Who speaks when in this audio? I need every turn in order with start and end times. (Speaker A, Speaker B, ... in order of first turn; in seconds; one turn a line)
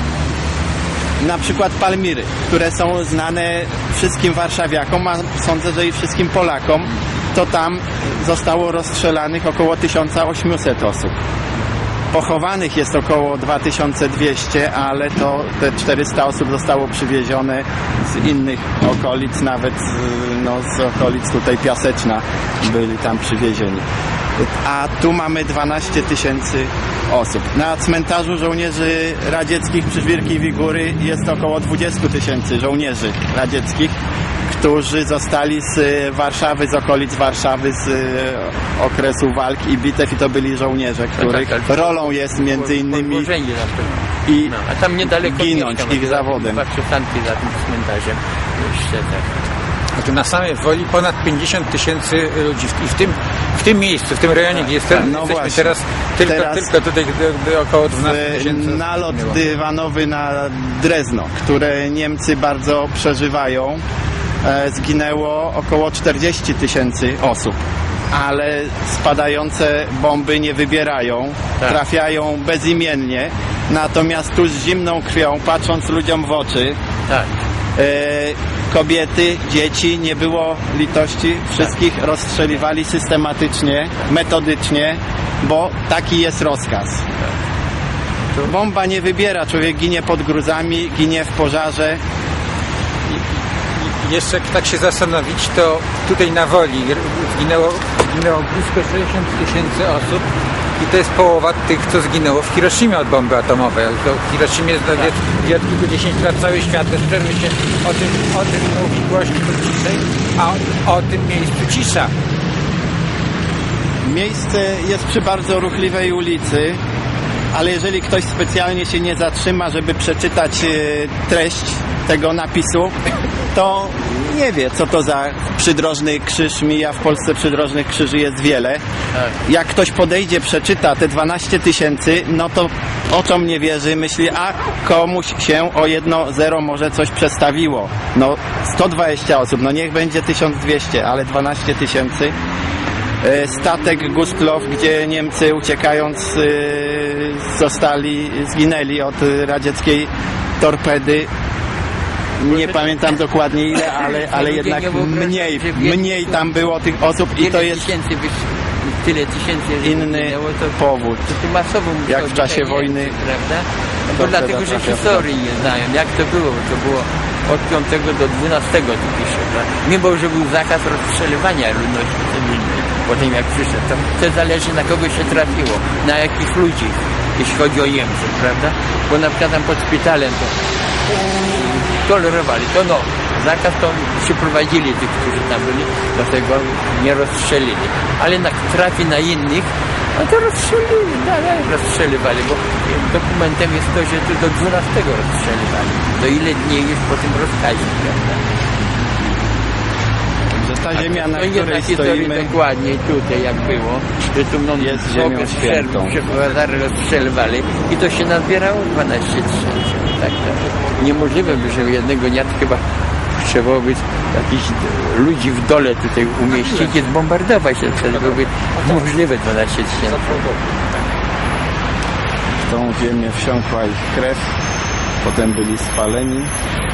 Speaker A: 1.2-11.1
Speaker A: 12.1-23.9
Speaker A: 24.4-33.9
Speaker A: 34.5-43.3
Speaker B: 41.2-49.3
Speaker A: 44.3-46.6
Speaker C: 50.0-59.4
Speaker B: 54.5-55.0
Speaker A: 55.0-56.7
Speaker A: 58.0-63.8
Speaker A: 64.4-67.5
Speaker A: 68.1-76.8
Speaker A: 77.8-87.0
Speaker A: 88.4-92.0
Speaker C: 93.8-100.2
Speaker C: 100.8-112.1
Speaker A: 114.0-116.8
Speaker A: 117.5-122.9
Speaker A: 123.5-128.8
Speaker A: 129.4-142.3
Speaker A: 143.2-151.3
Speaker A: 152.4-157.9
Speaker B: 154.2-156.4
Speaker B: 157.4-180.5
Speaker A: 159.8-161.2
Speaker A: 162.1-163.2
Speaker A: 164.1-165.3
Speaker B: 181.1-198.4
Speaker A: 200.6-202.6
Speaker B: 200.9-220.4
Speaker A: 204.8-206.2
Speaker C: 216.5-217.0
Speaker C: 220.4-220.7
Speaker A: 222.7-224.4
Speaker A: 225.2-226.5